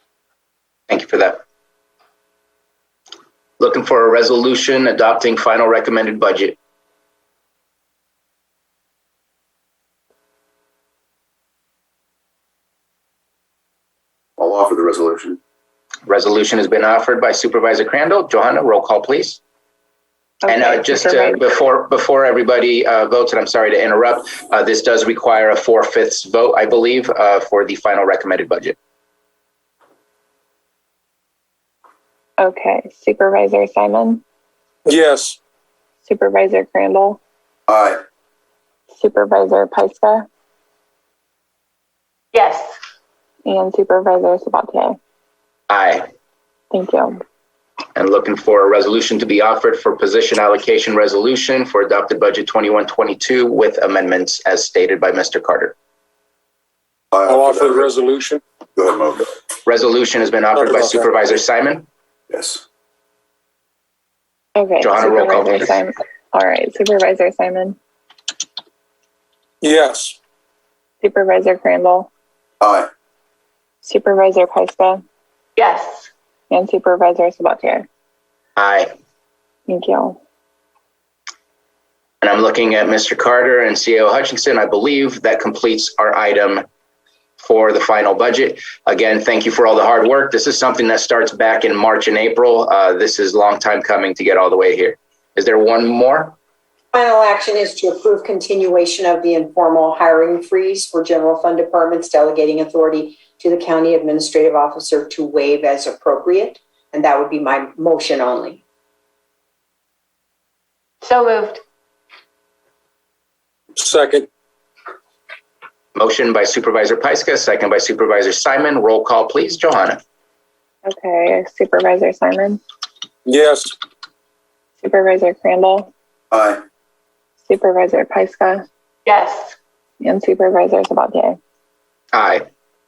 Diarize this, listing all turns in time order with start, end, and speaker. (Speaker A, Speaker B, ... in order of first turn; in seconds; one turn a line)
Speaker A: 0.9-1.4
Speaker A: 3.6-6.6
Speaker B: 14.4-15.4
Speaker A: 16.1-19.4
Speaker C: 20.5-21.4
Speaker A: 20.5-28.8
Speaker C: 32.4-34.2
Speaker D: 34.9-35.4
Speaker C: 36.0-37.2
Speaker B: 37.7-38.0
Speaker C: 38.9-40.3
Speaker E: 42.3-42.7
Speaker C: 43.5-45.0
Speaker A: 45.7-46.1
Speaker C: 46.7-47.2
Speaker A: 48.0-55.7
Speaker B: 57.1-57.9
Speaker D: 57.3-58.4
Speaker B: 58.8-59.3
Speaker A: 59.7-61.9
Speaker D: 60.5-61.1
Speaker B: 62.3-62.6
Speaker C: 64.6-67.8
Speaker A: 64.8-65.8
Speaker D: 69.6-70.2
Speaker C: 71.0-72.1
Speaker B: 72.6-72.9
Speaker C: 73.8-75.0
Speaker E: 75.6-76.1
Speaker C: 76.5-77.9
Speaker A: 78.6-78.9
Speaker C: 79.7-80.2
Speaker A: 82.2-86.6
Speaker A: 87.4-96.4
Speaker F: 96.9-108.6
Speaker E: 111.0-111.6
Speaker D: 113.8-114.3
Speaker A: 116.0-120.0
Speaker C: 120.9-122.6
Speaker D: 123.3-123.8
Speaker C: 124.8-125.9
Speaker B: 126.3-126.6
Speaker C: 127.5-128.7
Speaker E: 129.1-129.5
Speaker C: 130.0-131.4
Speaker A: 132.1-132.4